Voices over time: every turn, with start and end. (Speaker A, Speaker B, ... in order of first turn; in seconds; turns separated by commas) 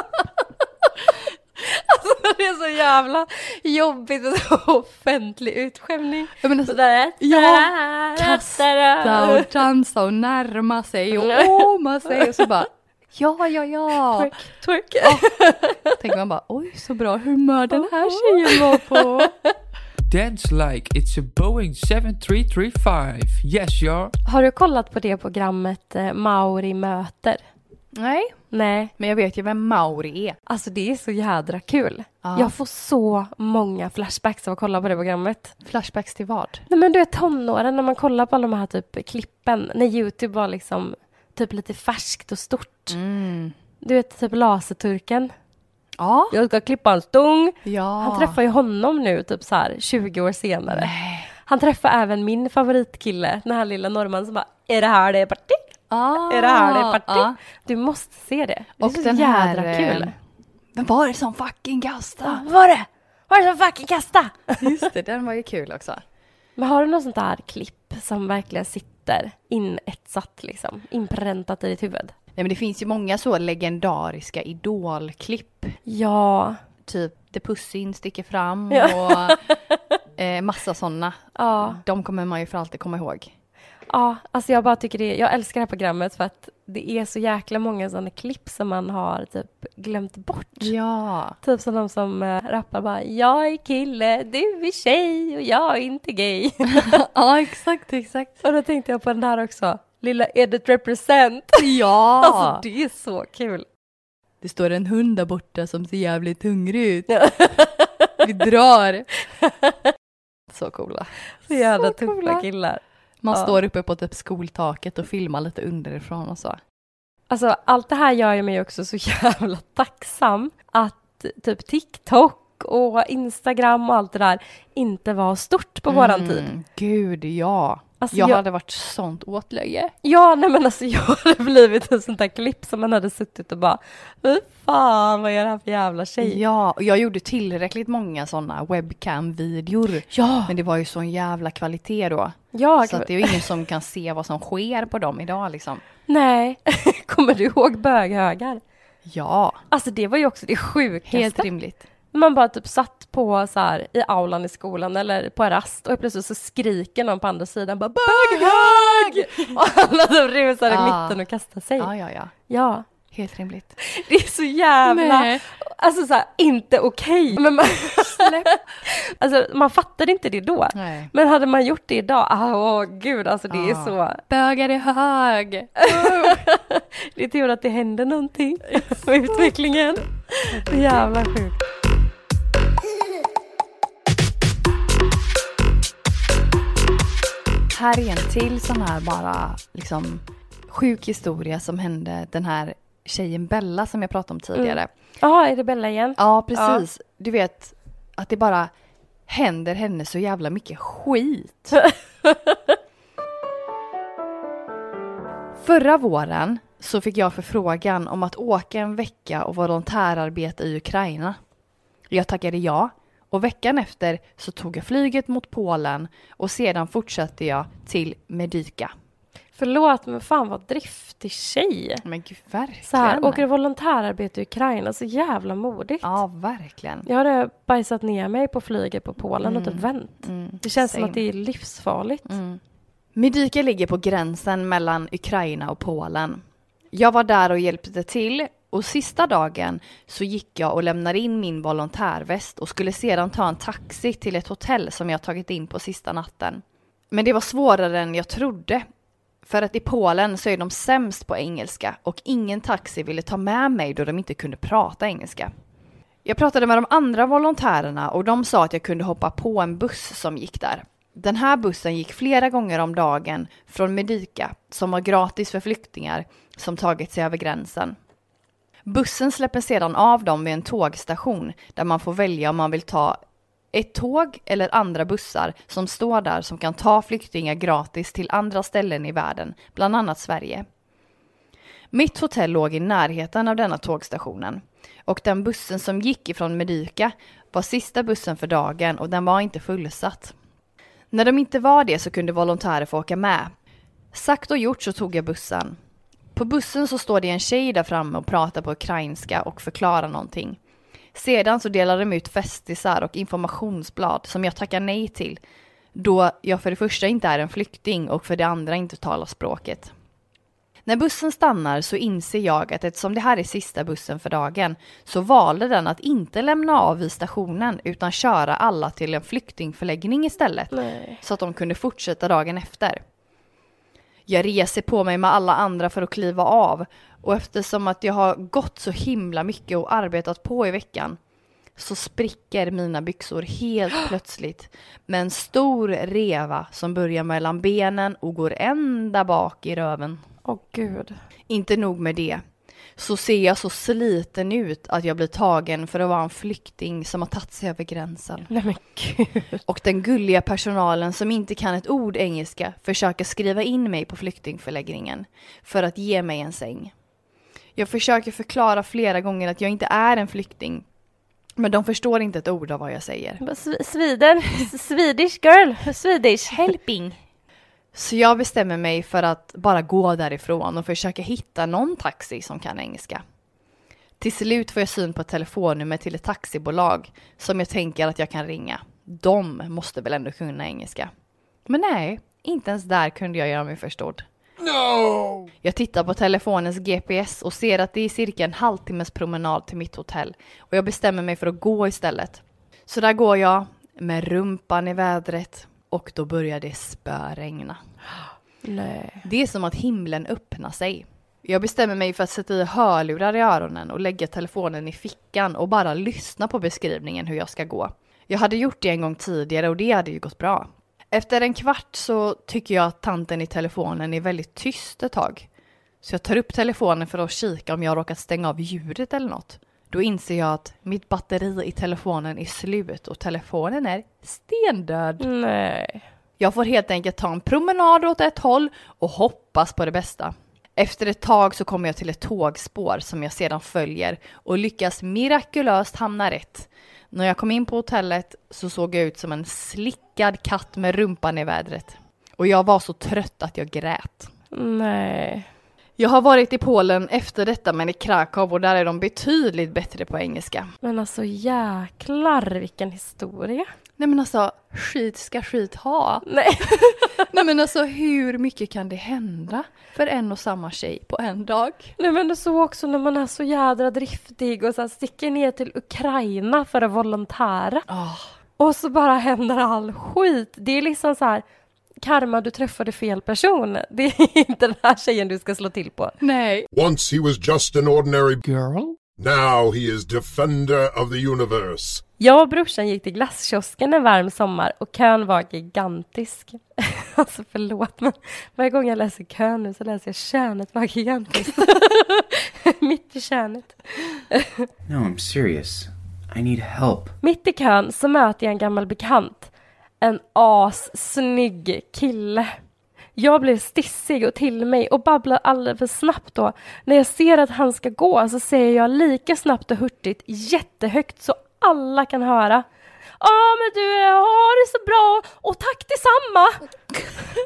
Speaker A: 1.6-9.5, Speaker B: 6.4-14.3, Speaker A: 11.2-12.5, Speaker A: 14.1-15.9, Speaker B: 15.0-19.3, Speaker A: 17.7-19.2, Speaker C: 20.0-24.1, Speaker A: 24.2-27.4, Speaker B: 27.9-28.4, Speaker A: 28.5-28.9, Speaker B: 29.0-30.4, Speaker A: 30.5-35.5, Speaker B: 32.2-32.5, Speaker B: 35.6-36.6, Speaker A: 36.7-43.0, Speaker B: 42.9-43.5, Speaker A: 43.8-45.3, Speaker B: 46.0-46.3, Speaker A: 46.3-50.9, Speaker B: 47.6-48.4, Speaker B: 50.7-51.3, Speaker A: 51.4-55.6, Speaker B: 55.9-57.4, Speaker A: 56.3-60.1, Speaker B: 58.8-60.1, Speaker B: 60.7-62.5, Speaker A: 62.2-64.8, Speaker B: 64.6-66.0, Speaker A: 66.6-72.1, Speaker B: 72.3-75.8, Speaker A: 75.9-76.6, Speaker B: 76.8-79.4, Speaker A: 78.7-79.7, Speaker B: 80.2-83.3, Speaker A: 81.3-81.8, Speaker A: 83.9-90.7, Speaker B: 90.6-91.4, Speaker A: 91.4-96.9, Speaker B: 96.7-98.4, Speaker A: 98.4-103.7, Speaker B: 101.5-102.6, Speaker B: 104.4-107.1, Speaker A: 107.1-108.1, Speaker B: 108.2-109.1, Speaker A: 109.4-109.8, Speaker B: 110.5-112.5, Speaker A: 111.4-113.5, Speaker B: 113.2-116.6, Speaker A: 117.3-126.5, Speaker B: 125.9-129.9, Speaker A: 128.0-128.4, Speaker A: 130.0-136.4, Speaker B: 136.2-145.8, Speaker A: 140.1-140.5, Speaker A: 142.5-143.4, Speaker A: 146.1-148.6, Speaker B: 149.0-149.6, Speaker A: 149.7-151.5, Speaker B: 151.1-151.8, Speaker A: 152.1-161.9, Speaker B: 158.0-159.6, Speaker B: 160.7-161.2, Speaker B: 161.8-162.3, Speaker A: 162.5-162.8, Speaker B: 163.1-163.8, Speaker A: 163.8-174.2, Speaker B: 164.8-165.4, Speaker B: 167.3-168.6, Speaker B: 170.7-171.1, Speaker B: 173.5-176.4, Speaker A: 175.8-181.6, Speaker B: 178.7-179.5, Speaker B: 180.5-181.1, Speaker B: 187.7-194.9, Speaker A: 194.5-196.8, Speaker B: 196.2-198.7, Speaker B: 199.3-201.8, Speaker A: 201.8-202.7, Speaker B: 205.6-211.4, Speaker B: 212.1-218.9, Speaker A: 219.6-222.0, Speaker B: 222.0-223.4, Speaker A: 222.8-226.2, Speaker B: 226.0-227.1, Speaker A: 227.1-232.3, Speaker B: 229.4-231.2, Speaker B: 232.2-232.6, Speaker B: 233.1-248.8, Speaker B: 249.4-255.5, Speaker B: 256.2-267.9, Speaker B: 268.8-273.2, Speaker B: 273.7-280.6, Speaker B: 281.9-290.4, Speaker B: 291.1-293.5, Speaker B: 294.1-295.8, Speaker B: 296.3-300.6, Speaker B: 301.1-305.4, Speaker B: 305.9-309.9, Speaker B: 310.8-323.0, Speaker A: 320.7-321.2, Speaker B: 324.3-331.2, Speaker B: 331.8-340.2, Speaker A: 340.4-341.2, Speaker B: 341.5-348.5, Speaker A: 348.5-349.6, Speaker B: 349.6-356.9, Speaker B: 357.7-360.9, Speaker B: 361.6-363.4, Speaker A: 363.4-366.7, Speaker B: 366.5-367.2, Speaker B: 367.9-373.2, Speaker B: 374.2-381.1, Speaker B: 381.6-384.3, Speaker D: 384.6-385.5, Speaker B: 385.6-397.8, Speaker A: 398.6-399.2, Speaker B: 399.2-415.5, Speaker B: 416.0-425.3, Speaker A: 425.2-426.1, Speaker B: 426.4-444.3, Speaker A: 444.5-445.5, Speaker B: 446.0-450.7, Speaker A: 450.8-453.7, Speaker B: 454.0-461.9, Speaker A: 456.2-457.2, Speaker A: 462.0-467.8, Speaker B: 467.9-468.3, Speaker A: 468.6-471.4, Speaker A: 472.0-476.2, Speaker B: 476.2-476.7, Speaker D: 476.7-478.4, Speaker E: 478.5-478.9, Speaker D: 479.2-482.0, Speaker A: 482.2-494.6, Speaker E: 494.9-497.1, Speaker A: 497.2-502.5, Speaker A: 503.1-512.6, Speaker A: 513.2-516.6